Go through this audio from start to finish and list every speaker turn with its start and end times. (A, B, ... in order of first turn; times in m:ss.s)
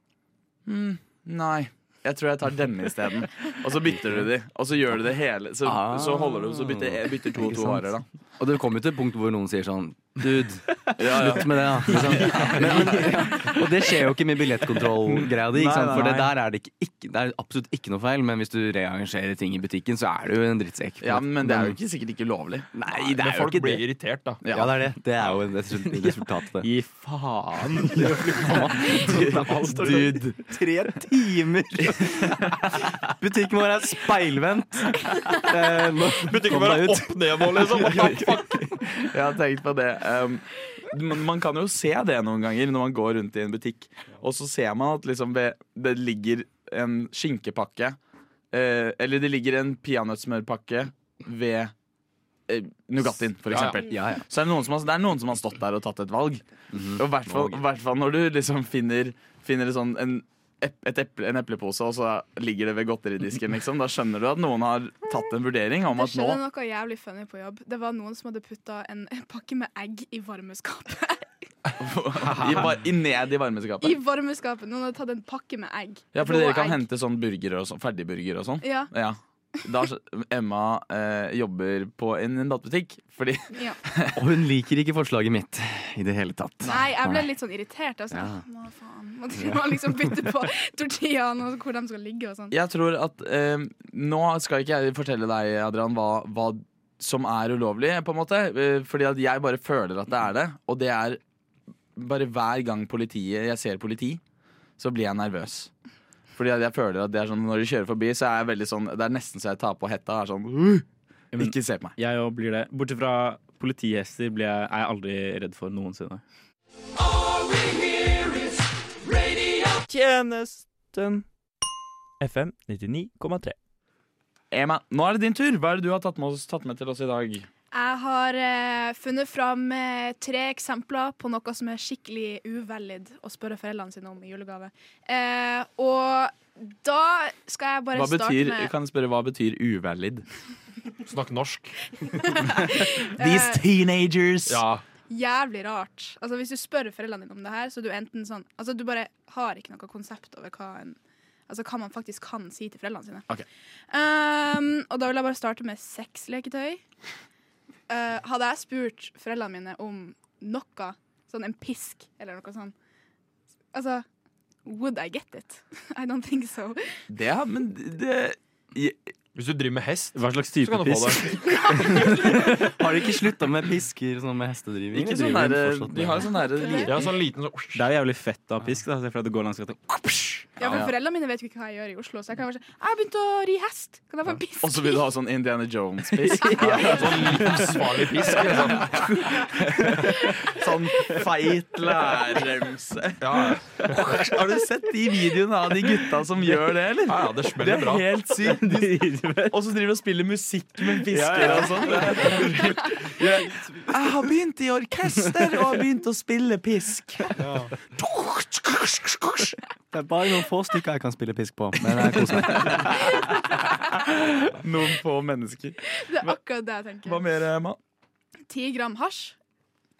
0:00.6-0:08.0 A
0:05.6-0:07.8 B
0:08.4-0:21.8 B
0:11.0-0:13.4 A
0:11.9-0:13.6 C
0:15.0-0:16.3 A
0:21.0-0:23.8 A
0:22.7-0:23.6 B
0:23.1-0:24.4 D
0:24.4-0:24.8 A
0:24.5-0:26.7 B
0:26.0-0:30.2 C
0:28.0-0:38.6 B
0:28.9-0:30.4 A
0:32.1-0:32.4 A
0:36.2-0:38.9 D
0:39.0-0:48.0 A
0:48.5-0:51.7 A
0:52.5-1:06.4 A
0:53.5-0:53.8 D
0:53.5-0:54.2 B
0:56.7-0:57.6 B
1:05.9-1:11.3 E
1:11.8-1:14.0 A
1:12.2-1:12.7 D
1:13.8-1:16.8 E
1:16.1-1:24.2 A
1:18.6-1:18.9 E
1:23.5-1:23.8 E
1:24.1-1:27.2 B
1:26.6-1:26.9 A
1:26.6-1:32.5 E
1:28.1-1:28.4 B
1:32.5-1:41.2 A
1:41.9-1:44.2 A
1:44.8-1:45.7 A
1:46.3-1:51.9 A
1:51.4-1:56.2 C
1:59.9-2:01.2 F
2:02.2-2:03.5 F
2:04.5-2:07.5 A
2:07.7-2:18.7 E
2:17.9-2:20.2 A
2:21.0-2:21.8 D
2:22.1-2:23.6 E
2:23.1-2:24.6 A
2:24.5-2:24.8 D
2:25.1-2:33.3 E
2:33.9-2:36.8 E
2:37.9-2:42.7 E
2:43.7-2:44.0 E
2:44.6-2:46.8 E
2:47.1-2:49.1 A
2:49.4-2:51.4 D
2:50.1-2:52.7 C
2:52.1-2:56.3 B
2:54.9-2:57.0 A
2:56.4-2:56.9 E
2:56.8-2:57.8 D
2:57.7-3:00.3 C
3:00.4-3:00.9 A
3:00.6-3:05.0 E
3:04.6-3:29.6 A
3:06.4-3:07.2 E
3:06.6-3:09.2 D
3:13.2-3:14.6 D
3:17.0-3:18.1 D
3:18.3-3:19.6 C
3:20.9-3:23.3 C
3:29.9-3:33.2 B
3:32.2-3:32.9 A
3:34.4-3:36.4 A
3:35.9-3:37.2 E
3:37.0-3:37.8 A
3:38.5-3:39.4 E